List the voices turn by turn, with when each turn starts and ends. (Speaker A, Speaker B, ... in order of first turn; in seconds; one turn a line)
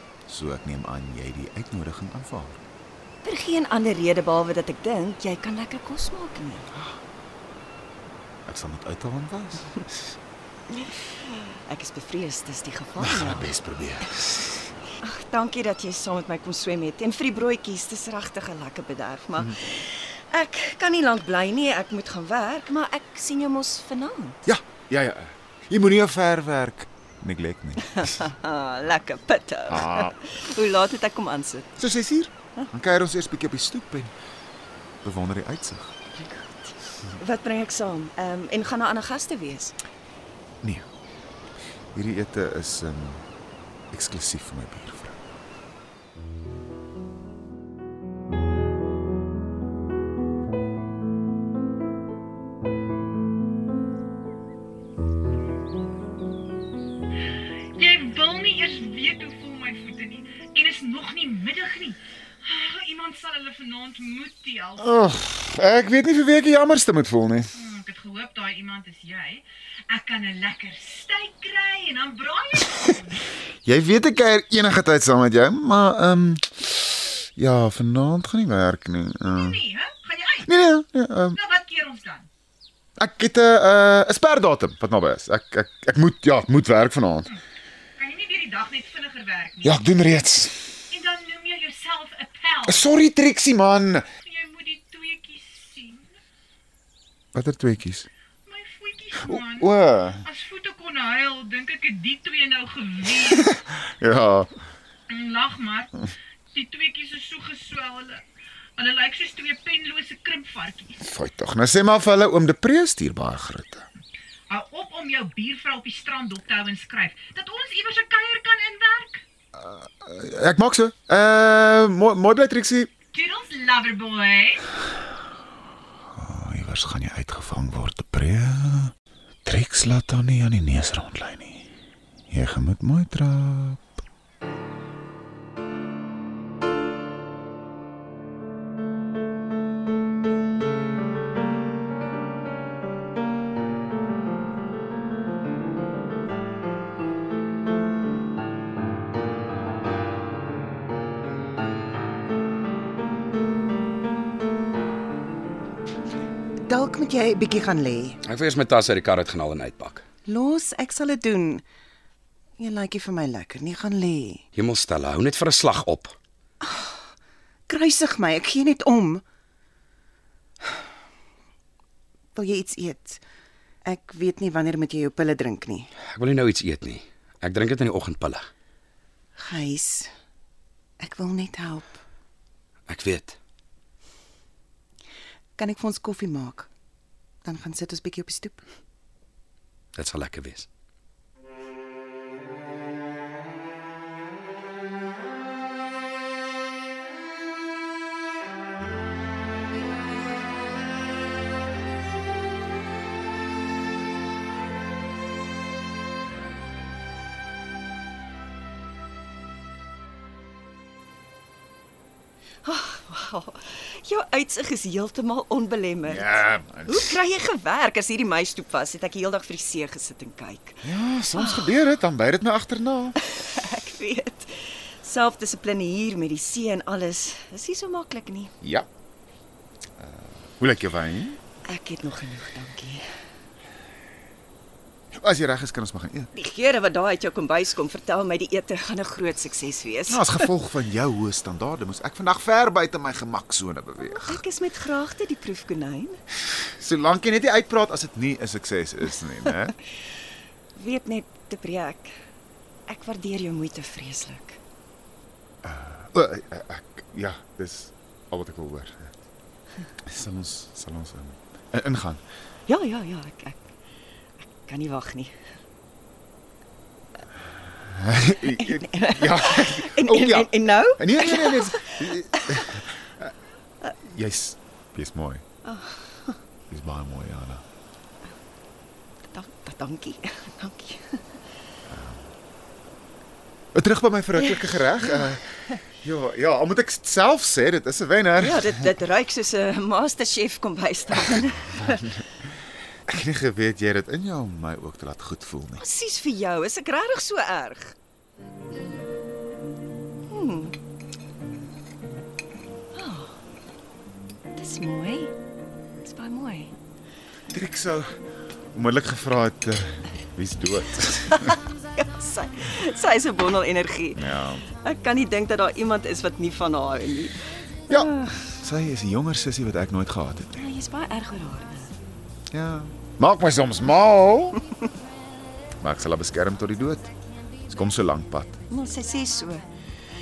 Speaker A: 0.3-2.6
Speaker B: 3.2-6.7
Speaker A: 8.4-9.8
Speaker B: 10.7-13.5
Speaker A: 13.0-14.6
Speaker B: 15.0-24.5
Speaker A: 24.4-28.2
Speaker B: 27.8-31.7
Speaker A: 29.7-30.2
Speaker A: 31.8-34.1
Speaker A: 35.0-35.9
Speaker B: 36.1-39.8
Speaker A: 41.9-43.2
Speaker A: 43.9-45.2
Speaker C: 57.8-64.8
Speaker A: 64.8-67.5
Speaker C: 67.5-73.2
Speaker A: 73.6-79.6
Speaker C: 79.3-80.5
Speaker A: 80.4-81.4
Speaker C: 81.3-82.3
Speaker A: 83.0-87.3
Speaker C: 88.0-89.8
Speaker A: 89.6-90.8
Speaker C: 90.9-92.8
Speaker A: 92.7-94.1
Speaker C: 94.2-96.1
Speaker A: 97.3-98.1
Speaker C: 98.5-99.7
Speaker A: 99.2-100.2
Speaker C: 100.2-103.5
Speaker A: 103.3-104.5
Speaker C: 105.1-108.2
Speaker C: 108.8-111.0
Speaker A: 111.0-113.9
Speaker C: 114.5-119.2
Speaker A: 119.5-122.9
Speaker C: 123.1-124.6
Speaker A: 126.1-128.9
Speaker A: 129.4-131.7
Speaker A: 132.3-133.8
Speaker D: 156.7-158.2
Speaker E: 158.2-160.0
Speaker D: 160.2-161.6
Speaker D: 162.6-164.4
Speaker E: 164.5-166.1
Speaker D: 166.6-166.9
Speaker D: 167.7-169.2
Speaker D: 172.3-173.2
Speaker D: 173.8-175.9
Speaker E: 176.1-178.4
Speaker D: 179.4-180.1
Speaker D: 181.0-182.0
Speaker E: 182.9-183.3
Speaker D: 185.6-186.7
Speaker D: 187.4-188.6
Speaker E: 189.9-190.7
Speaker B: 212.6-221.8
Speaker A: 216.0-217.2
Speaker A: 220.8-223.2
Speaker B: 223.2-228.5
Speaker A: 228.6-228.9
Speaker A: 230.0-231.4
Speaker B: 231.6-233.0
Speaker A: 235.1-236.3
Speaker B: 236.3-240.5
Speaker A: 240.1-244.4
Speaker B: 244.0-246.2
Speaker A: 246.5-249.8
Speaker B: 250.7-252.1
Speaker B: 252.9-254.6
Speaker A: 255.6-259.1
Speaker A: 260.1-262.2
Speaker B: 262.7-263.6
Speaker B: 264.4-265.3
Speaker A: 267.9-273.3
Speaker B: 268.6-272.6
Speaker A: 274.0-275.4
Speaker B: 275.6-276.4
Speaker A: 276.7-277.6
Speaker B: 279.3-281.2
Speaker A: 281.9-282.2
Speaker A: 283.7-285.4
Speaker A: 286.0-288.9
Speaker B: 288.4-292.1
Speaker A: 291.3-292.2
Speaker A: 293.1-295.8
Speaker B: 295.8-297.9
Speaker B: 300.3-300.7
Speaker B: 302.9-303.3
Speaker B: 304.6-305.3
Speaker B: 306.0-306.7
Speaker A: 307.5-308.1
Speaker A: 308.7-311.6
Speaker B: 311.3-317.4
Speaker A: 314.1-314.6
Speaker A: 317.9-320.6
Speaker B: 317.9-318.5
Speaker B: 320.5-321.9
Speaker A: 322.5-324.6
Speaker A: 325.8-327.1
Speaker A: 327.6-328.6
Speaker B: 328.7-329.6